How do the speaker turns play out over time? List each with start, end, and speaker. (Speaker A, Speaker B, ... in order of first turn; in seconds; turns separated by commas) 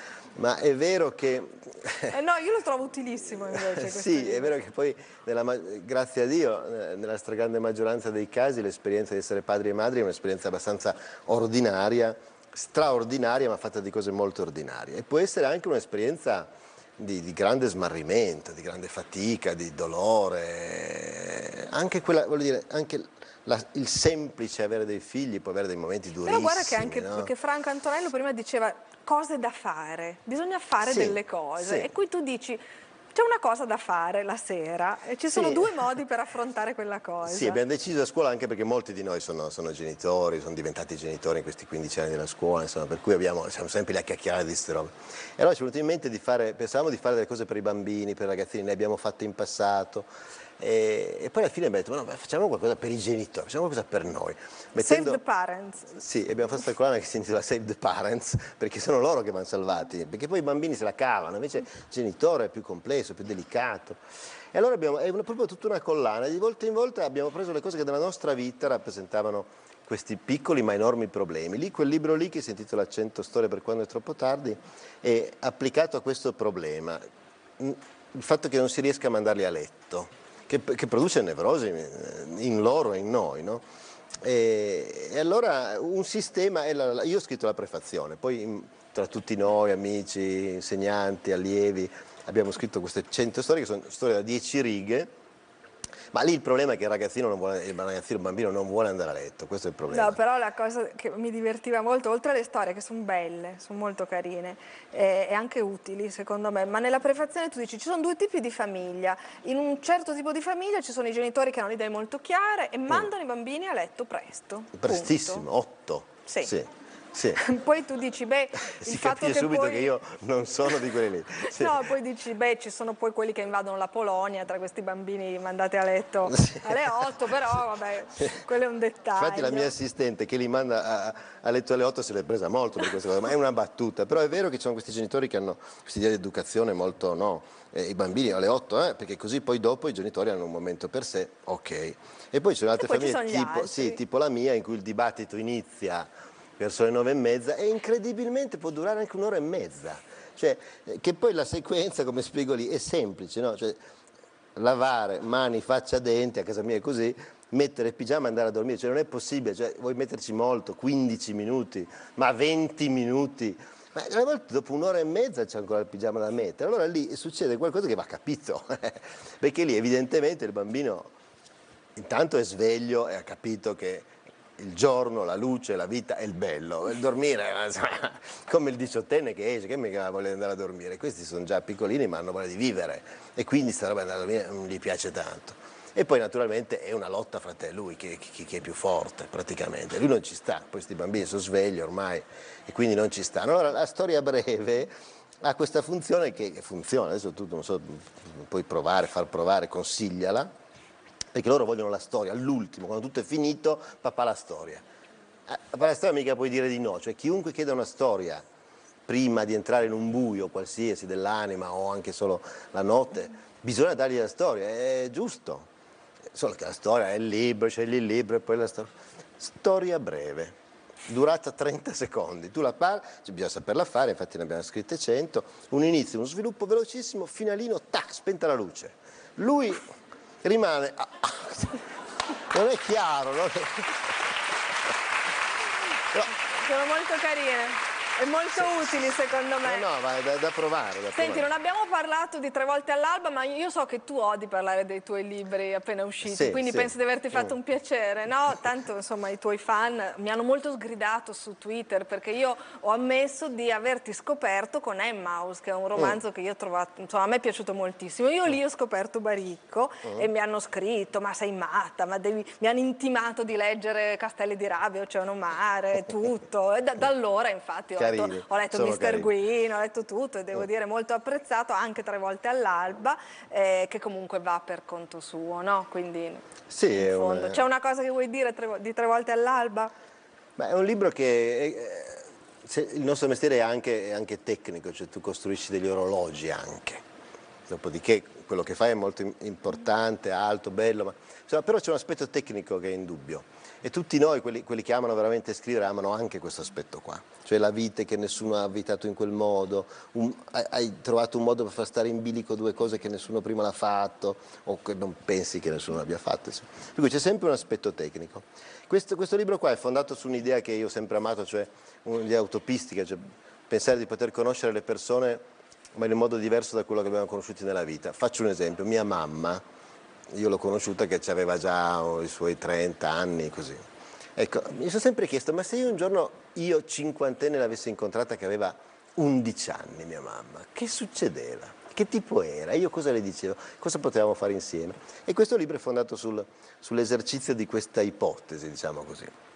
Speaker A: 0.4-2.2, Speaker B: 2.1-4.5, Speaker A: 3.6-27.3, Speaker B: 26.2-32.6, Speaker A: 30.8-31.9, Speaker B: 33.1-37.6, Speaker A: 35.3-35.8, Speaker A: 37.2-50.1, Speaker A: 50.6-55.2, Speaker B: 54.8-55.9, Speaker A: 55.9-64.0, Speaker A: 64.5-77.0, Speaker A: 77.6-83.6, Speaker A: 84.2-95.1, Speaker A: 96.1-100.2, Speaker B: 99.9-115.5, Speaker A: 114.8-117.4, Speaker B: 116.3-116.5, Speaker B: 117.4-119.9, Speaker A: 118.7-121.9, Speaker B: 121.5-129.7, Speaker A: 126.3-126.7, Speaker A: 129.2-153.8, Speaker B: 142.8-144.0, Speaker A: 154.6-171.1, Speaker A: 172.0-200.5, Speaker A: 201.3-204.8, Speaker A: 205.5-208.4, Speaker A: 209.1-215.7, Speaker A: 216.3-220.5, Speaker A: 221.1-229.8, Speaker A: 230.4-231.8, Speaker A: 232.5-234.1, Speaker B: 236.4-239.9, Speaker A: 239.6-241.5, Speaker B: 241.1-279.9, Speaker A: 246.2-247.5, Speaker A: 268.0-269.3, Speaker A: 276.7-277.6, Speaker A: 280.6-287.0, Speaker A: 287.7-315.4, Speaker A: 315.9-319.6, Speaker A: 320.3-323.8, Speaker A: 324.4-339.3